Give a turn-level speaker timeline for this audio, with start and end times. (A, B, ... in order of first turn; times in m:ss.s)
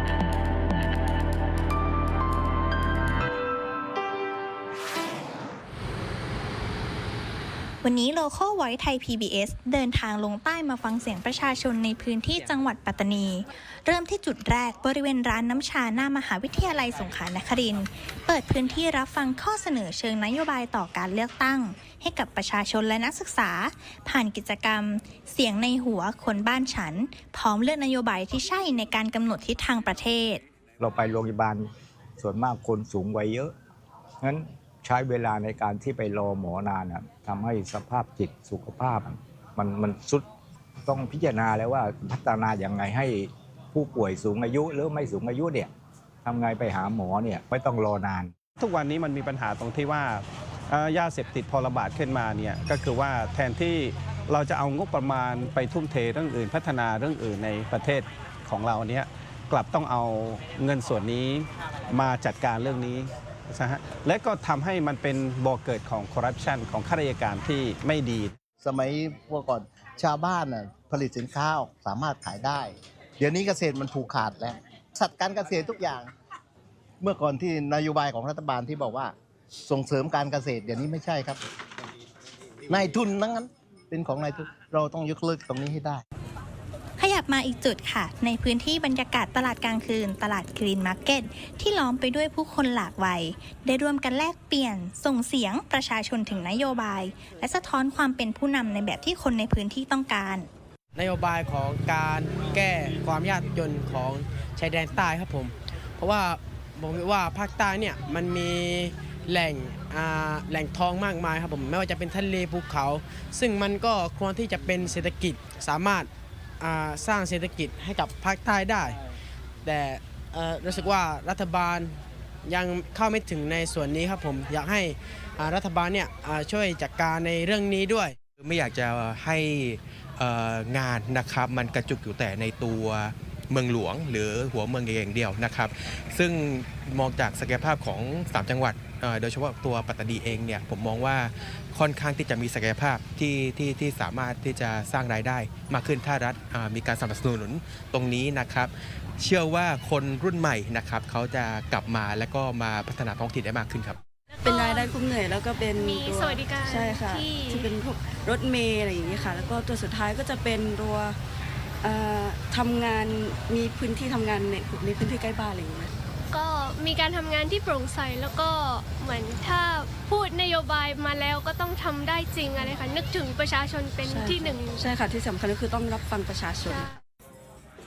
0:07.8-0:30.4 A
0:30.8-0:31.7 B
0:32.2-0:33.5 B
0:34.2-0:40.2 B
0:40.8-0:45.7 B
0:46.2-0:48.3 B
0:48.6-1:08.3 C
1:08.6-1:16.1 D
1:17.0-1:19.1 D
1:19.6-1:21.4 D
1:22.7-1:26.0 D
1:27.0-1:40.5 A
1:41.0-1:56.0 E
1:56.6-1:58.9 E
1:59.6-2:01.9 E
2:02.5-2:08.1 E
2:08.4-2:34.0 F
2:34.3-2:34.9 G
2:34.4-2:41.2 H
2:35.8-2:37.7 G
2:39.0-2:39.5 G
2:41.8-2:45.9 H
2:46.3-2:54.8 G
2:54.0-2:56.9 H